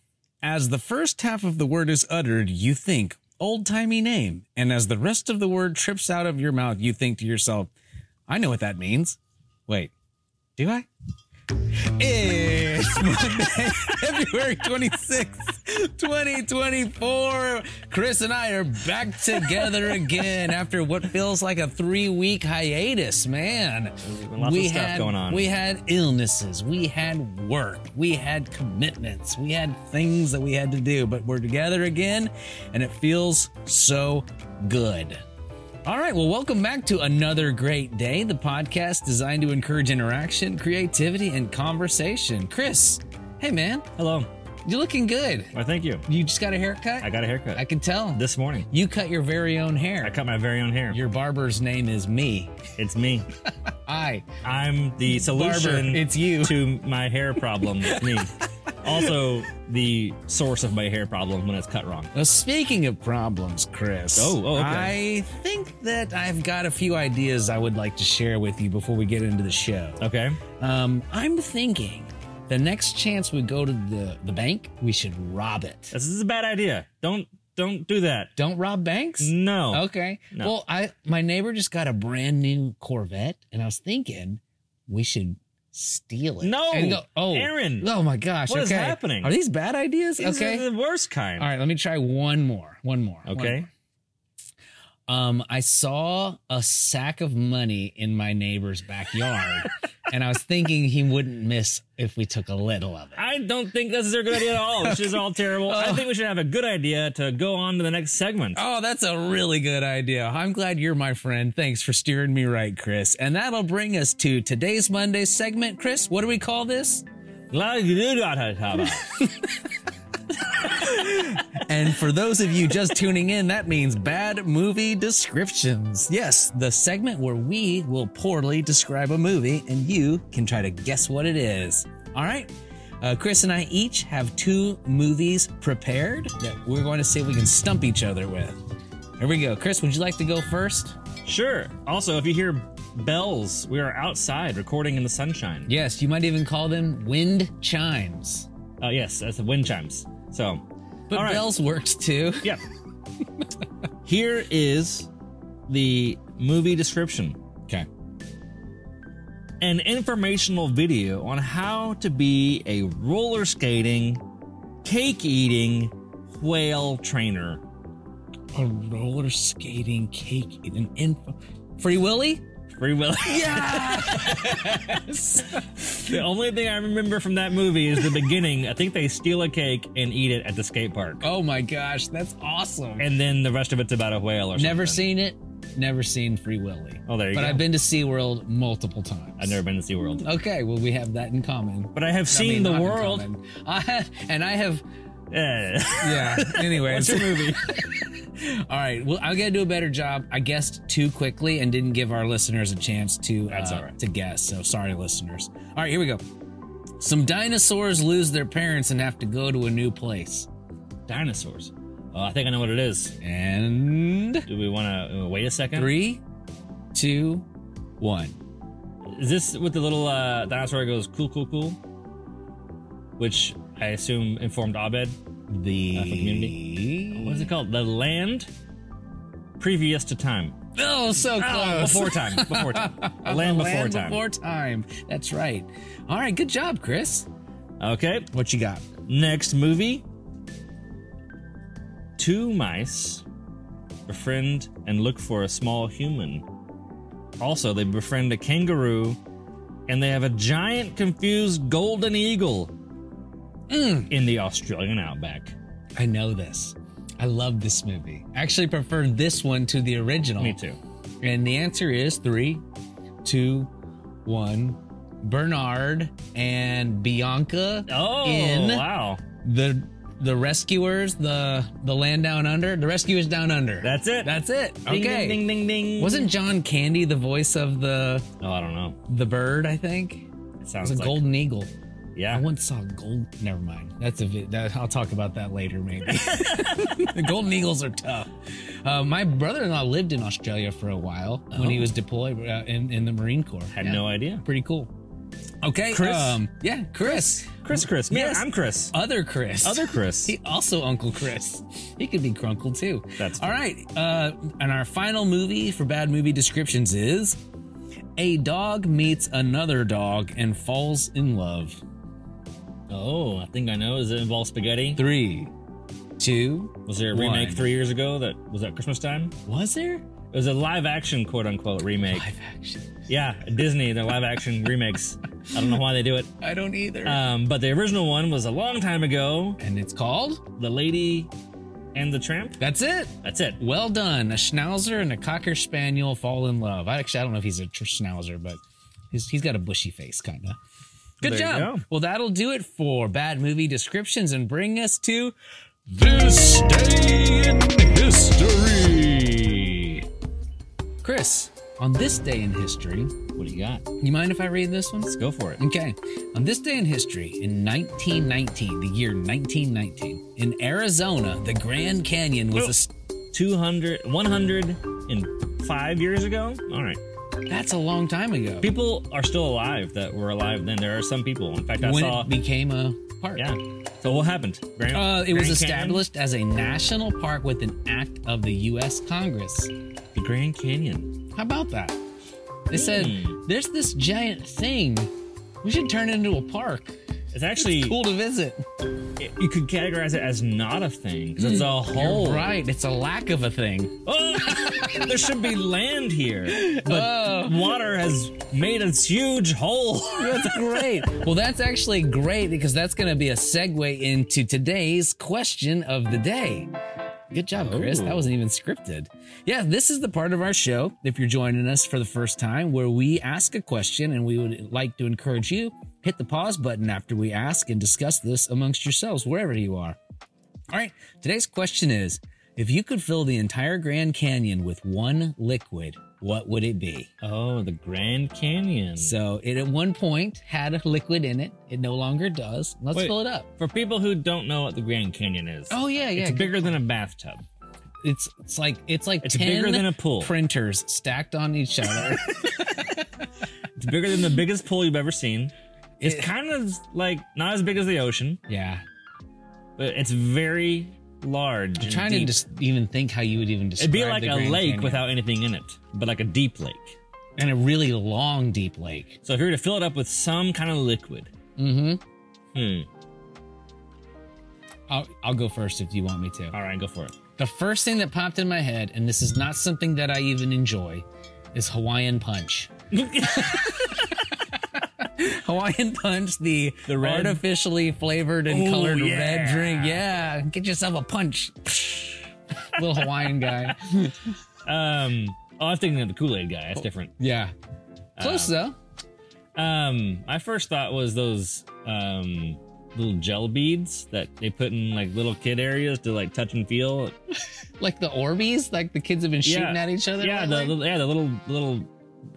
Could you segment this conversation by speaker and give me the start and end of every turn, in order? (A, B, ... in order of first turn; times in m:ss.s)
0:00.4-0:07.7 A
0:08.3-0:09.9 A
0:10.6-0:10.9 A
0:12.0-0:35.2 A
0:24.0-0:25.5 B
0:35.8-0:43.8 A
0:44.0-0:44.3 B
0:44.6-0:45.5 A
0:45.5-0:46.0 B
0:46.1-0:50.2 A
0:47.0-0:47.6 B
0:48.1-0:48.7 B
0:50.0-0:51.0 B
0:50.9-0:52.5 A
0:52.8-0:53.3 B
0:53.7-0:54.3 A
0:54.4-1:02.1 B
0:55.2-0:56.6 A
1:02.1-1:10.0 A
1:04.1-1:05.0 B
1:10.0-1:10.4 B
1:10.6-1:15.9 A
1:15.9-1:18.3 B
1:18.4-1:30.6 A
1:19.2-1:20.5 B
1:26.4-1:27.9 B
1:28.4-1:29.3 B
1:30.2-1:31.5 B
1:31.4-1:33.7 A
1:33.2-1:33.7 B
1:35.1-1:43.2 A
1:43.2-1:48.6 B
1:44.8-1:46.1 A
1:48.5-1:57.0 A
1:57.5-1:59.1 B
2:00.6-2:18.6 A
2:19.2-2:21.0 A
2:21.2-2:25.7 B
2:25.6-2:28.5 A
2:28.8-2:31.5 B
2:31.1-2:32.5 A
2:34.0-2:35.1 B
2:35.7-2:37.4 B
2:39.6-2:44.2 B
2:44.8-2:47.6 B
2:48.5-2:52.4 A
2:52.8-2:55.0 B
2:53.3-2:55.9 A
2:55.6-3:01.2 B
3:01.2-3:03.1 A
3:03.0-3:05.0 B
3:04.6-3:09.6 A
3:07.1-3:07.7 B
3:09.4-3:10.2 B
3:10.2-3:14.8 A
3:11.9-3:13.2 B
3:15.3-3:17.9 B
3:16.0-3:26.2 A
3:23.5-3:23.9 B
3:27.0-3:30.5 A
3:31.1-3:33.1 B
3:33.2-3:34.5 A
3:34.5-3:35.9 B
3:35.7-3:36.2 A
3:36.9-3:37.4 A
3:38.0-3:38.4 A
3:39.1-3:41.8 B
3:43.2-3:45.2 B
3:45.5-3:47.5 A
3:45.9-3:46.5 B
3:47.1-3:48.5 B
3:49.6-3:50.5 B
3:50.7-3:57.3 A
3:51.2-3:54.2 B
3:57.8-3:58.3 B
3:58.3-3:58.8 A
3:59.1-4:00.0 B
4:02.2-4:03.2 B
4:04.1-4:06.4 B
4:07.4-4:09.2 B
4:09.9-4:12.7 B
4:13.7-4:14.1 A
4:14.1-4:15.5 B
4:16.0-4:20.6 A
4:20.4-4:20.8 B
4:21.2-4:22.6 A
4:23.2-4:23.7 A
4:24.2-4:28.8 A
4:27.9-4:29.2 B
4:29.4-4:35.4 A
4:33.8-4:34.3 B
4:34.8-4:36.3 B
4:36.0-4:38.2 A
4:38.4-4:39.0 B
4:39.1-4:40.3 A
4:40.6-4:41.2 B
4:40.8-4:41.7 A
4:42.1-4:42.4 B
4:42.3-4:48.3 A
4:46.1-4:47.2 B
4:48.8-4:54.9 A
4:51.6-4:51.9 B
4:53.7-4:54.4 B
4:55.6-5:07.4 A
4:55.9-4:56.4 B
4:57.0-4:58.9 B
4:59.6-5:00.3 B
5:03.2-5:03.5 B
5:08.2-5:11.8 A
5:12.9-5:15.0 B
5:15.0-5:15.5 A
5:16.2-5:17.6 A
5:16.8-5:19.3 B
5:19.4-5:20.0 A
5:20.3-5:22.3 B
5:22.1-5:22.9 A
5:23.1-5:26.3 B
5:26.4-5:27.2 A
5:27.0-5:29.6 B
5:29.6-5:30.4 A
5:30.6-5:31.3 B
5:31.9-5:32.6 B
5:32.6-5:38.6 A
5:33.2-5:33.6 B
5:39.1-5:40.6 A
5:41.2-5:41.8 B
5:41.2-5:45.3 A
5:45.9-5:49.0 A
5:48.9-5:50.0 B
5:51.0-5:53.1 A
5:53.3-5:53.8 B
5:54.0-6:02.9 A
5:55.1-5:55.6 B
6:03.3-6:07.0 B
6:07.5-6:08.7 A
6:08.6-6:12.3 B
6:11.8-6:13.4 A
6:13.4-6:16.0 B
6:14.9-6:19.7 A
6:20.1-6:21.1 B
6:21.3-6:22.0 A
6:22.7-6:25.1 A
6:22.7-6:23.4 B
6:25.6-6:26.9 A
6:27.3-6:28.0 B
6:27.6-6:28.6 A
6:29.2-6:32.6 B
6:31.4-6:34.0 A
6:34.0-6:41.1 B
6:36.5-6:37.7 A
6:40.2-6:46.7 A
6:47.3-7:00.0 A
6:47.6-6:48.2 B
7:00.7-7:07.1 A
7:07.2-7:09.1 B
7:09.0-7:13.5 A
7:12.9-7:17.4 B
7:15.7-7:16.8 A
7:18.0-7:23.0 A
7:19.2-7:20.3 B
7:23.8-7:25.5 B
7:26.0-7:26.3 A
7:26.0-7:28.4 B
7:28.5-7:28.8 A
7:29.8-7:32.4 B
7:31.8-7:35.0 A
7:33.8-7:37.0 B
7:37.4-7:39.2 A
7:39.2-7:41.3 B
7:41.6-7:42.0 A
7:42.5-7:42.9 B
7:44.9-7:46.5 A
7:46.5-7:47.1 B
7:47.4-7:54.2 A
7:52.9-7:54.1 B
7:55.0-8:04.3 A
7:56.9-7:57.4 B
7:58.5-8:00.0 B
8:04.6-8:07.1 B
8:07.2-8:07.5 A
8:08.2-8:08.5 B
8:08.2-8:08.8 A
8:09.5-8:17.1 B
8:17.8-8:20.8 A
8:19.4-8:21.9 B